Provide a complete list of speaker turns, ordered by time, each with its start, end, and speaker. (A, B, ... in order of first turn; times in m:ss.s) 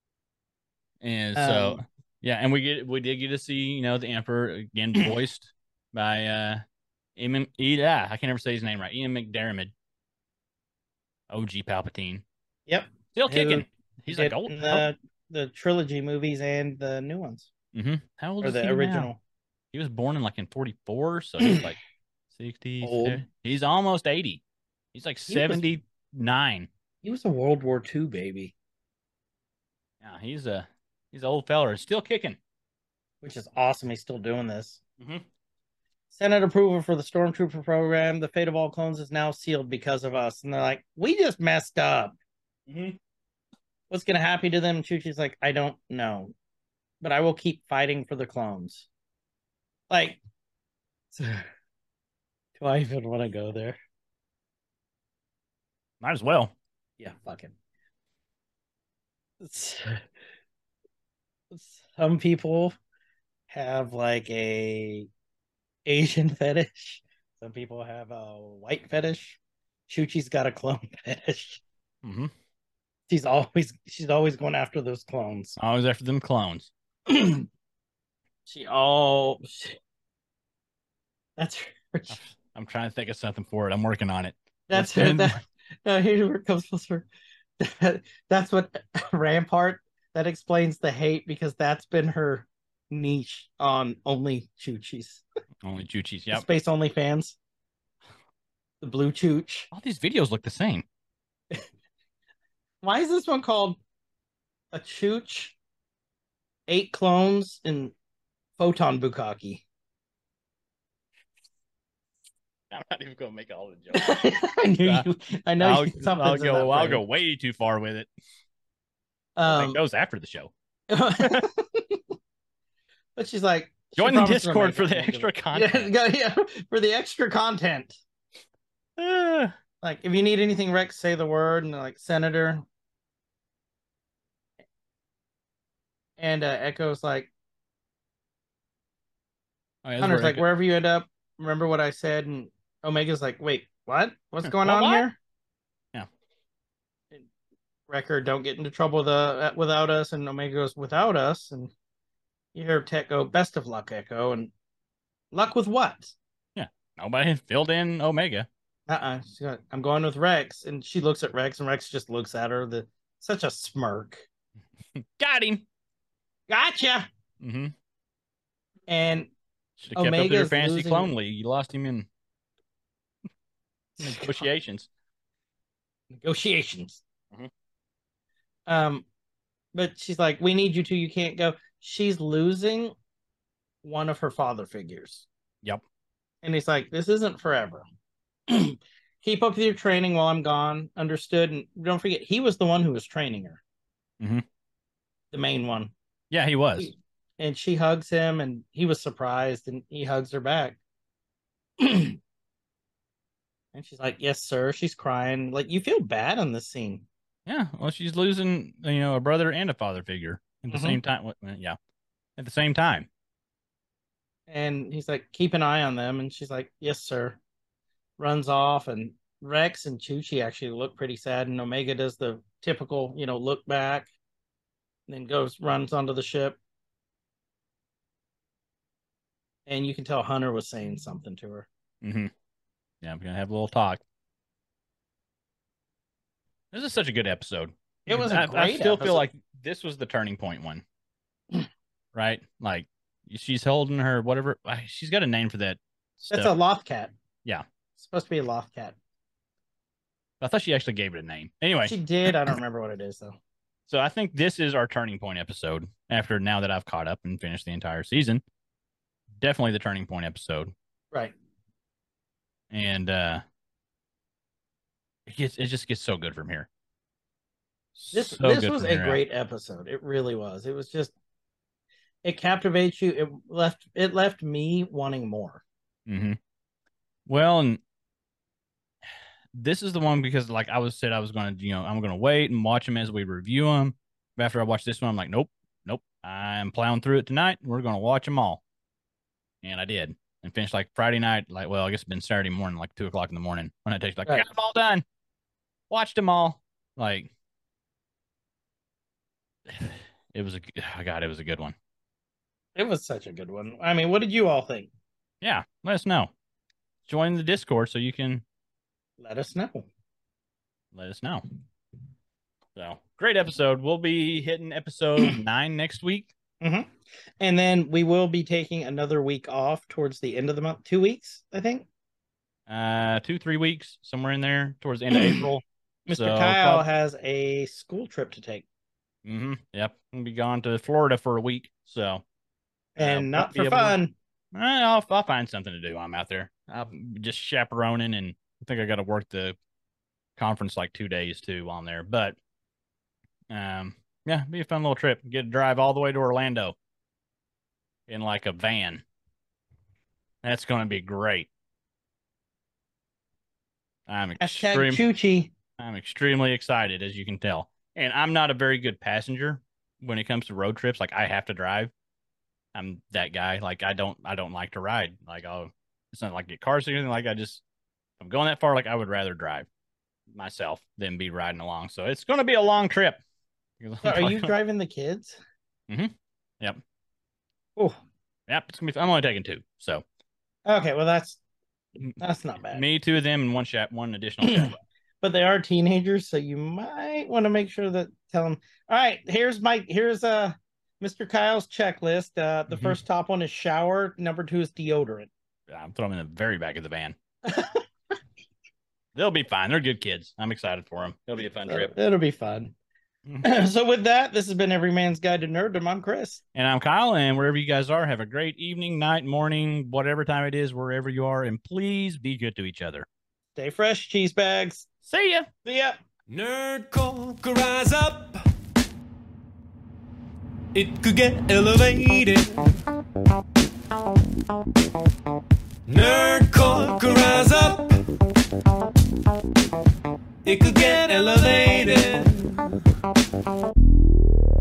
0:01.0-0:06.6 A
0:01.4-0:01.8 B
0:07.2-0:09.7 A
0:11.3-0:12.2 A
0:12.7-0:17.5 B
0:13.1-0:14.9 A
0:17.7-0:19.1 A
0:18.4-0:19.2 B
0:19.7-0:21.8 A
0:22.3-0:24.4 A
0:22.8-0:23.2 B
0:24.9-0:26.7 A
0:25.3-0:25.6 B
0:27.0-0:28.5 B
0:30.0-0:32.4 A
0:33.2-0:34.8 B
0:35.0-0:35.2 A
0:36.1-0:42.2 B
0:42.7-0:43.0 A
0:43.9-0:46.3 B
0:47.0-0:48.9 B
0:49.9-0:50.2 B
0:51.1-0:51.4 B
0:52.6-0:53.8 B
0:56.0-0:56.5 A
0:57.0-0:57.5 B
0:59.4-1:00.0 B
1:01.5-1:02.8 B
1:03.5-1:05.1 B
1:05.9-1:11.6 B
1:12.0-1:12.3 A
1:13.1-1:15.6 B
1:15.6-1:16.7 A
1:17.1-1:17.5 B
1:18.5-1:19.8 B
1:21.4-1:22.2 B
1:22.1-1:25.4 A
1:24.7-1:27.1 B
1:27.6-1:35.2 B
1:35.6-1:36.5 A
1:36.3-1:37.4 B
1:38.8-1:39.7 B
1:39.7-1:40.9 A
1:42.8-1:43.8 B
1:44.7-1:45.6 B
1:46.7-1:47.9 B
1:48.6-1:49.6 B
1:52.7-1:54.2 A
1:53.9-1:57.0 B
1:54.8-1:55.1 A
1:55.6-1:58.1 A
1:59.4-1:59.8 B
1:59.5-2:00.5 A
2:00.9-2:02.0 B
2:01.2-2:01.5 A
2:03.2-2:08.0 B
2:04.0-2:05.9 A
2:09.0-2:09.5 A
2:09.8-2:12.6 B
2:16.2-2:17.3 B
2:19.8-2:20.5 A
2:20.0-2:25.2 B
2:24.4-2:25.1 A
2:27.9-2:31.7 B
2:32.6-2:34.5 B
2:35.3-2:36.1 B
2:36.6-2:38.5 A
2:38.9-2:44.3 B
2:45.0-2:45.6 A
2:46.5-2:47.1 B
2:47.4-2:47.7 A
2:48.9-2:49.3 B
2:49.8-2:52.1 A
2:50.0-2:51.1 B
2:54.0-2:54.5 B
2:54.0-2:54.9 A
2:56.2-2:57.0 B
2:58.7-2:59.0 B
2:59.8-3:02.9 B
3:03.8-3:05.3 B
3:06.4-3:07.8 B
3:08.5-3:13.6 B
3:14.2-3:14.4 A
3:15.3-3:15.9 B
3:16.3-3:16.9 A
3:16.8-3:20.8 B
3:21.8-3:22.2 B
3:23.7-3:27.1 B
3:27.5-3:31.8 A
3:30.7-3:31.0 B
3:32.4-3:33.1 A
3:34.5-3:37.4 B
3:38.2-3:44.1 B
3:45.1-3:46.6 B
3:49.7-3:51.7 B
3:52.0-3:52.3 A
3:53.0-3:54.0 A
3:56.7-4:00.8 A
3:58.1-3:59.3 B
4:02.1-4:06.5 A
4:06.3-4:07.1 B
4:08.0-4:09.0 B
4:10.4-4:12.5 A
4:11.8-4:13.4 B
4:13.9-4:18.4 A
4:19.4-4:20.7 A
4:22.7-4:23.4 A
4:25.3-4:26.7 A
4:28.0-4:29.2 A
4:28.1-4:31.1 B
4:32.2-4:35.6 B
4:36.1-4:36.4 A
4:37.3-4:37.8 A
4:39.6-4:48.6 A
4:49.6-4:55.0 A
4:55.9-4:57.3 A
4:59.7-5:01.8 A
5:02.8-5:04.9 B
5:05.4-5:06.3 A
5:07.1-5:08.4 A
5:09.2-5:09.9 B
5:10.9-5:11.4 A
5:12.8-5:16.3 A
5:16.6-5:21.9 B
5:22.7-5:26.9 A
5:25.1-5:25.4 B
5:26.1-5:28.6 B
5:29.2-5:32.2 A
5:33.0-5:34.1 B
5:33.0-5:34.0 A
5:34.5-5:39.6 A
5:40.4-5:42.4 A
5:43.5-5:46.8 A
5:48.1-5:49.0 A
5:50.4-5:51.5 A
5:54.1-5:55.0 A
5:54.4-5:55.5 B
5:55.8-6:01.9 A
6:02.7-6:07.6 A
6:08.2-6:09.7 A
6:10.3-6:13.2 A
6:13.8-6:14.5 A
6:14.0-6:15.4 B
6:15.9-6:16.8 A
6:18.5-6:20.0 A
6:20.7-6:21.4 B
6:22.2-6:22.8 B
6:22.7-6:24.8 A
6:24.4-6:35.3 B
6:32.7-6:33.0 A
6:35.7-6:37.2 A
6:37.5-6:37.8 B
6:39.2-6:41.9 A
6:41.7-6:42.7 B
6:43.4-6:46.4 B
6:46.5-6:53.1 A
6:53.6-6:54.9 B
6:55.1-6:55.5 A
6:55.6-6:56.0 B
6:56.3-6:58.4 C
7:00.8-7:02.6 C
7:05.9-7:08.0 C
7:10.4-7:12.5 C